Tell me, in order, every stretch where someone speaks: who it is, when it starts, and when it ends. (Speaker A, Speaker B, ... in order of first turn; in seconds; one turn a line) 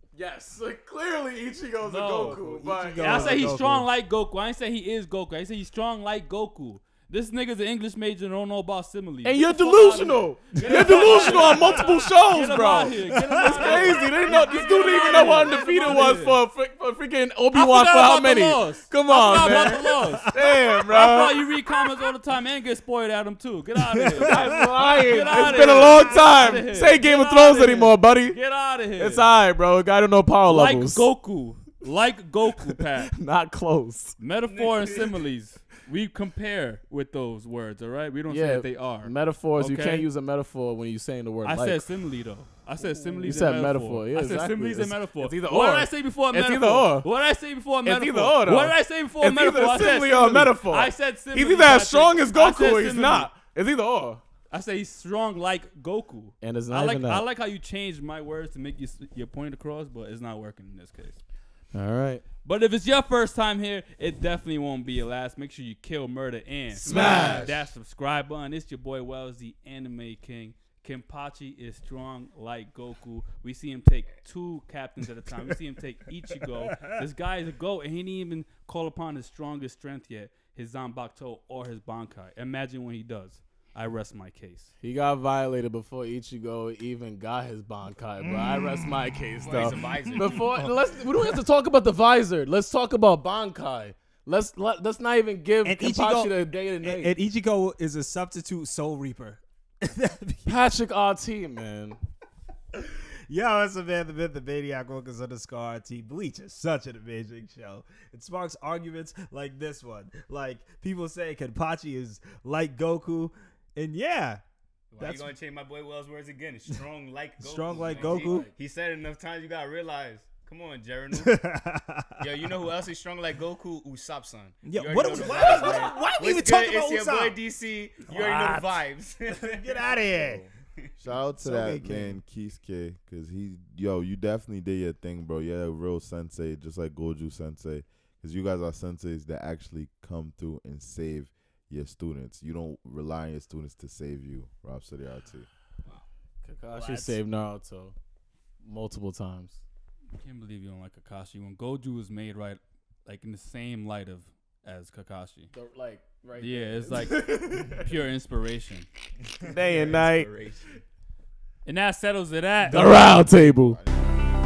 Speaker A: 0.1-3.6
Speaker B: 1.8-2.4
Speaker C: 2.2-3.9
Speaker B: 3.0-16.4
Speaker A: 9.2-21.5
Speaker C: 10.6-12.1
Speaker C: 13.0-14.0
Speaker B: 17.5-29.3
Speaker C: 20.0-20.5
Speaker C: 24.0-24.5
Speaker A: 24.1-28.4
Speaker A: 28.9-31.1
Speaker B: 30.4-33.1
Speaker A: 33.1-34.2
Speaker B: 34.2-40.1
Speaker D: 34.4-35.2
Speaker A: 38.3-41.9
Speaker B: 41.4-53.3
Speaker A: 43.2-47.1
Speaker A: 47.8-54.2
Speaker B: 54.5-61.2
Speaker A: 56.4-57.2
Speaker A: 61.7-62.2
Speaker B: 62.4-84.7
Speaker A: 66.7-67.7
Speaker A: 84.8-97.2
Speaker C: 88.2-89.1
Speaker D: 89.4-90.6
Speaker C: 90.0-90.7
Speaker C: 95.6-100.5
Speaker A: 100.4-102.0
Speaker C: 102.7-114.4
Speaker D: 114.9-121.5
Speaker C: 115.0-115.3
Speaker C: 117.4-118.5
Speaker A: 117.7-118.5
Speaker C: 121.2-122.2
Speaker D: 122.2-129.9
Speaker C: 124.6-127.4
Speaker A: 125.1-126.1
Speaker C: 128.0-130.5
Speaker E: 131.0-145.5
Speaker C: 131.4-132.2
Speaker A: 146.4-147.9
Speaker A: 148.6-149.6
Speaker B: 150.2-155.5
Speaker A: 155.5-157.9
Speaker B: 156.4-158.9
Speaker D: 159.4-160.8
Speaker A: 159.4-160.3
Speaker B: 161.6-163.3
Speaker A: 162.7-163.8
Speaker E: 163.1-164.1